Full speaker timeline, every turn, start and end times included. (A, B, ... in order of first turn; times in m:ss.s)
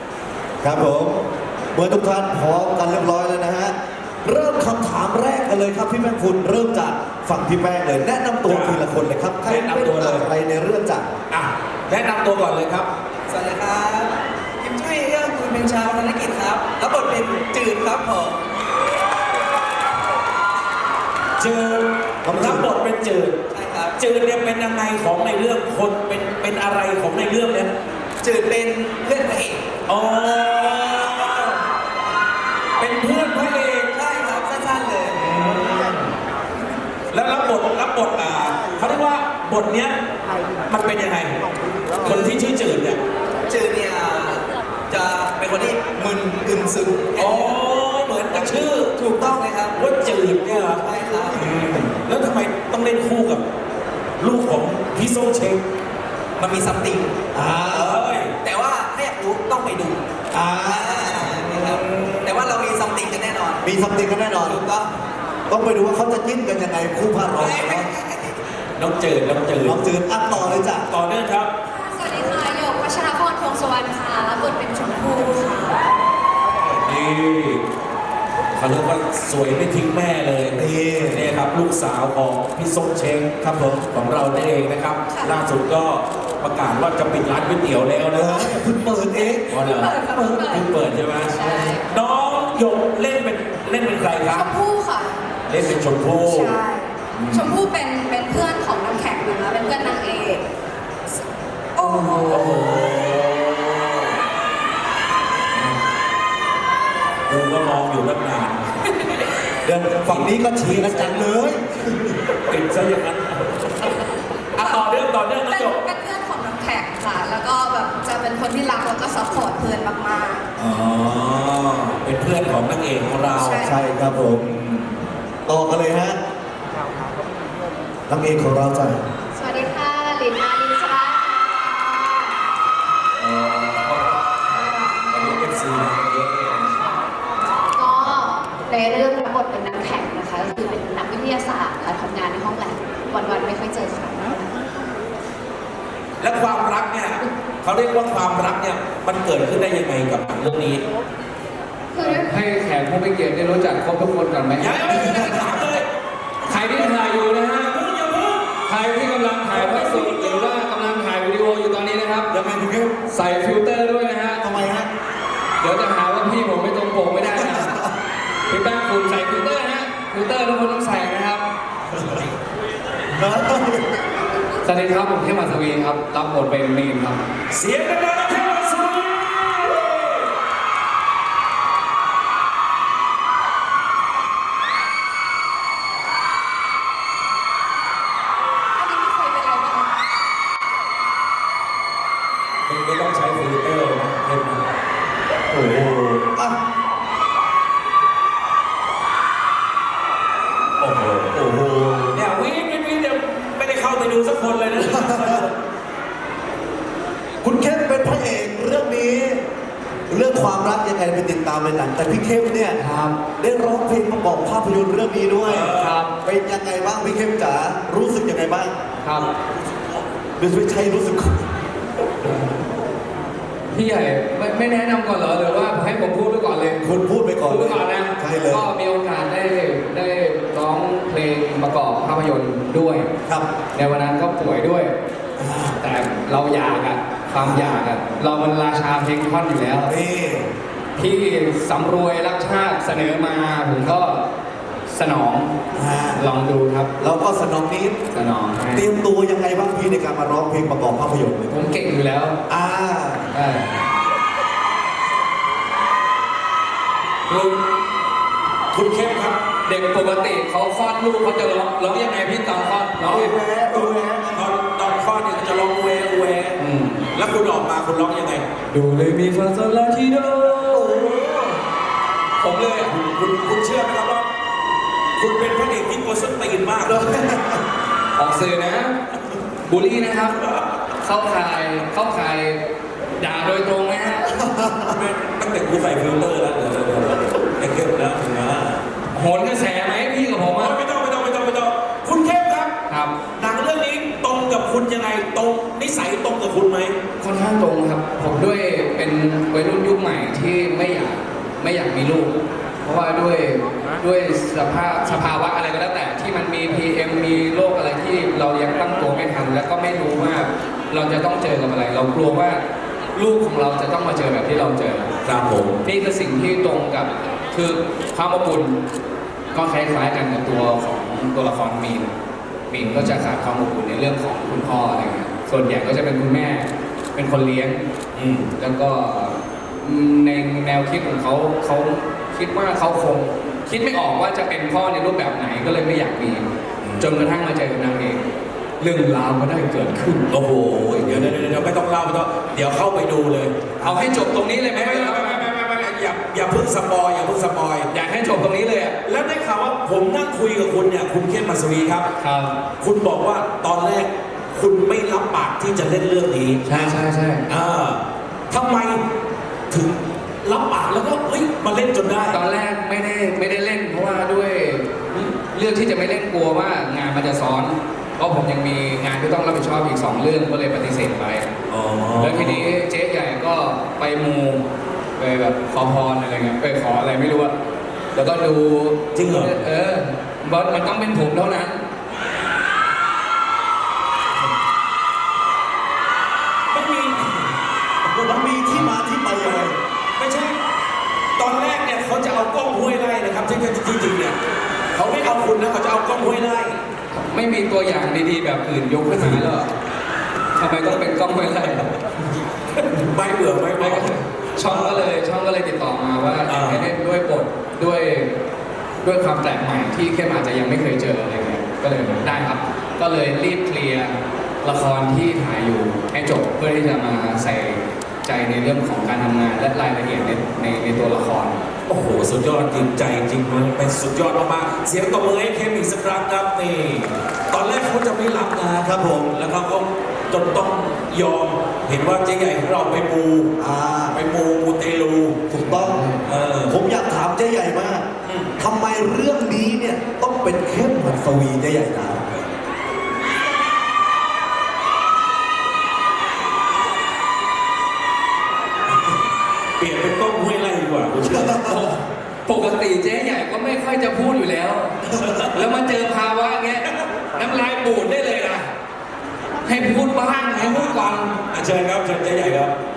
0:00.6-0:01.2 A
0:01.7-0:11.1 A
0:08.4-0:08.8 B
0:09.4-0:10.3 B
0:11.3-0:12.9 B
0:13.3-0:18.4 C
0:21.4-0:23.4 B
0:22.2-0:22.7 A
0:23.5-0:24.0 C
0:24.0-0:27.7 B
0:28.2-0:29.6 C
0:29.9-0:31.6 B
0:32.8-0:33.9 B
0:33.9-0:35.2 C
0:35.2-0:36.1 B
0:37.1-0:40.0 B
0:40.7-0:41.4 B
0:42.0-0:43.0 B
0:42.0-0:42.3 C
0:43.4-0:47.6 C
0:47.2-0:49.0 B
0:48.1-0:49.8 C
0:49.7-0:50.8 B
0:50.7-0:51.6 C
0:51.3-0:51.8 A
0:51.9-0:53.4 B
0:54.2-0:55.6 B
0:56.4-0:57.1 C
0:57.3-0:58.0 A
0:57.7-0:58.3 B
0:58.4-1:00.0 C
1:00.3-1:02.3 A
1:00.6-1:03.6 C
1:03.6-1:04.6 A
1:04.4-1:04.9 C
1:05.5-1:07.9 A
1:07.3-1:08.4 C
1:08.8-1:11.5 B
1:09.6-1:10.9 A
1:11.7-1:15.8 D
1:16.7-1:17.6 B
1:18.5-1:23.4 B
1:20.6-1:21.3 A
1:23.4-1:23.8 A
1:23.9-1:28.5 B
1:25.1-1:25.4 D
1:28.1-1:30.4 A
1:29.5-1:34.5 B
1:29.5-1:30.7 D
1:31.3-1:31.8 D
1:34.2-1:35.2 D
1:35.5-1:36.6 B
1:36.2-1:40.4 D
1:37.1-1:37.6 B
1:41.8-1:43.1 D
1:41.8-1:44.2 B
1:47.3-1:48.7 B
1:49.6-1:52.2 A
1:50.0-1:51.3 B
1:52.5-1:54.0 B
1:54.0-1:54.9 D
1:54.5-1:55.8 B
1:55.4-2:00.4 D
2:00.6-2:03.7 B
2:03.3-2:03.8 D
2:03.6-2:04.6 A
2:05.5-2:06.2 A
2:08.1-2:09.0 A
2:09.3-2:12.4 D
2:13.2-2:16.9 B
2:14.5-2:15.5 D
2:17.6-2:24.5 D
2:17.8-2:18.2 B
2:26.2-2:30.8 B
2:31.9-2:32.3 D
2:32.0-2:35.7 E
2:34.6-2:35.8 B
2:34.9-2:35.6 A
2:36.4-2:37.8 E
2:36.4-2:38.6 B
2:38.7-2:42.3 E
2:39.5-2:40.5 B
2:42.3-2:43.0 A
2:43.1-2:44.4 E
2:44.4-2:44.9 A
2:45.6-2:47.8 E
2:47.2-2:47.9 A
2:48.5-2:51.5 E
2:51.9-2:52.2 A
2:53.1-2:54.0 A
2:54.6-2:57.2 E
2:57.5-3:00.3 B
3:08.7-3:09.9 D
3:12.7-3:14.7 B
3:15.5-3:16.6 A
3:20.8-3:21.4 B
3:21.3-3:22.2 A
3:22.1-3:25.6 B
3:24.8-3:25.4 A
3:27.4-3:29.4 A
3:30.1-3:32.8 A
3:32.8-3:33.2 E
3:33.4-3:38.7 A
3:35.4-3:36.0 B
3:35.7-3:36.1 E
3:39.0-3:39.3 E
3:40.4-3:41.4 A
3:43.7-3:46.9 E
3:46.8-3:48.7 A
3:47.4-3:53.1 E
3:53.7-3:54.9 E
3:55.4-3:55.8 A
3:55.8-4:00.0 E
3:59.9-4:00.5 A
4:01.0-4:04.3 E
4:04.9-4:05.6 E
4:05.7-4:06.2 A
4:06.1-4:06.9 E
4:07.0-4:08.0 A
4:08.1-4:08.9 E
4:08.7-4:11.5 A
4:11.5-4:12.4 E
4:12.5-4:13.3 A
4:13.3-4:13.8 E
4:17.3-4:17.6 E
4:18.7-4:19.4 B
4:19.6-4:23.4 E
4:23.0-4:26.6 B
4:23.0-4:24.5 A
4:26.6-4:27.1 E
4:27.1-4:28.4 B
4:28.7-4:31.0 E
4:30.7-4:31.6 A
4:32.4-4:33.0 E
4:32.8-4:34.3 B
4:35.2-4:37.1 B
4:36.8-4:37.6 A
4:38.1-4:39.0 E
4:39.6-4:40.4 E
4:41.0-4:42.6 E
4:43.2-4:44.3 E
4:44.3-4:45.0 A
4:44.9-4:48.8 B
4:49.1-4:50.8 E
4:50.5-4:52.7 B
4:52.9-4:53.2 E
4:53.4-4:57.0 B
4:57.2-5:12.6 E
5:13.1-5:15.1 E
5:15.2-5:15.8 B
5:15.8-5:18.8 E
5:19.5-5:22.1 E
5:22.7-5:27.9 E
5:22.8-5:23.2 B
5:28.2-5:28.5 B
5:28.6-5:36.4 E
5:36.8-5:37.1 B
5:37.0-5:38.2 E
5:38.8-5:40.3 E
5:40.3-5:43.7 B
5:40.9-5:41.3 E
5:43.8-5:45.5 E
5:44.7-5:47.9 B
5:47.9-5:49.0 E
5:49.0-5:52.1 B
5:52.2-5:52.6 E
5:52.8-5:57.0 B
5:56.6-5:57.4 E
5:57.5-5:59.0 B
5:59.7-6:02.4 B
6:02.3-6:11.5 E
6:11.7-6:12.7 B
6:12.1-6:14.6 E
6:15.2-6:17.5 E
6:18.1-6:21.8 E
6:19.1-6:19.6 B
6:26.7-6:27.5 B
6:28.0-6:30.6 B
6:28.2-6:29.7 A
6:31.4-6:34.4 B
6:34.9-6:36.8 B
6:37.1-6:39.7 E
6:39.1-6:39.5 B
6:40.6-6:41.9 E
6:42.8-6:45.1 B
6:43.8-6:48.3 E
6:46.5-6:46.9 B
6:49.0-7:01.6 E
7:01.9-7:13.5 B
7:08.8-7:09.4 A
7:13.6-7:14.2 A
7:14.1-7:15.6 B
7:15.5-7:16.1 A
7:15.6-7:16.2 E
7:16.2-7:16.8 B
7:16.6-7:18.1 A
7:18.2-7:18.5 B
7:18.6-7:22.3 A
7:29.8-7:31.8 B
7:31.2-7:31.8 A
7:31.6-7:38.7 E
7:35.1-7:35.6 B
7:39.6-7:41.4 E
7:40.5-7:42.7 B